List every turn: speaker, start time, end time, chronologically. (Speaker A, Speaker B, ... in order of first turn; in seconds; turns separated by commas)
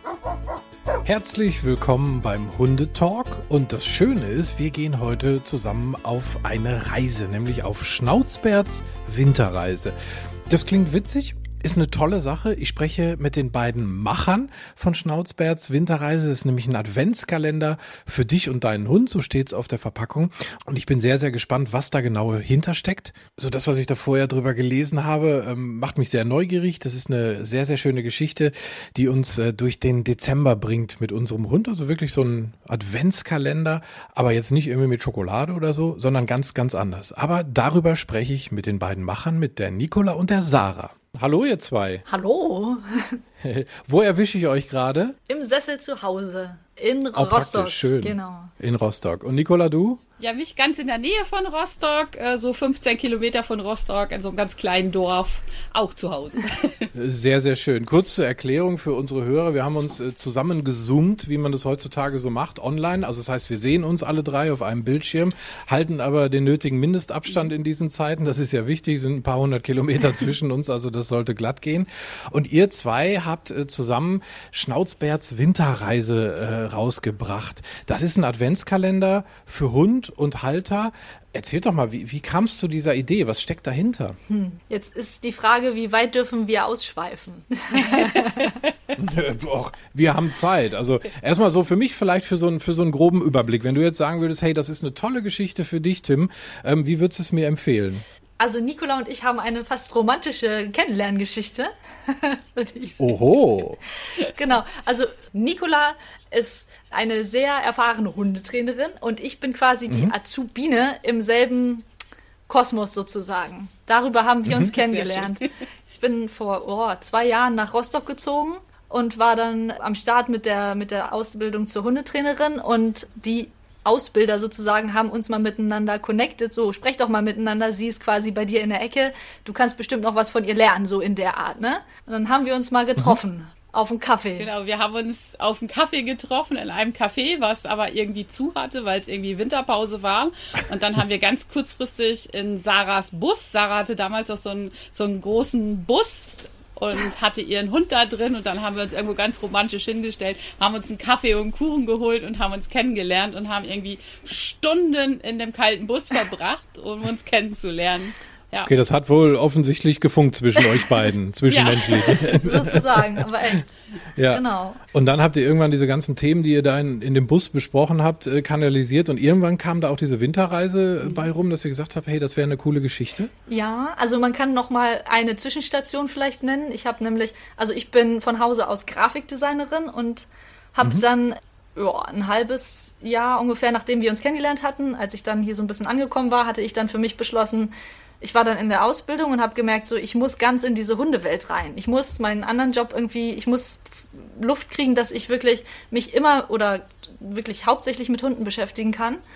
Speaker A: 1.1-9.9, Speaker A: 10.5-42.0, Speaker B: 42.0-43.2, Speaker A: 43.4-45.2, Speaker B: 45.3-48.5, Speaker A: 47.1-50.0, Speaker C: 50.2-56.9, Speaker A: 56.9-84.2, Speaker B: 84.3-88.6, Speaker A: 89.0-98.0, Speaker B: 98.4-103.2, Speaker A: 103.0-103.8, Speaker B: 104.1-111.9, Speaker B: 112.5-115.5, Speaker A: 114.5-114.7, Speaker C: 114.9-115.4, Speaker B: 116.0-134.5, Speaker C: 134.4-158.7, Speaker A: 158.6-163.2, Speaker C: 161.5-162.2, Speaker B: 162.2-163.7, Speaker A: 164.2-173.3, Speaker B: 164.3-164.8, Speaker B: 173.5-199.2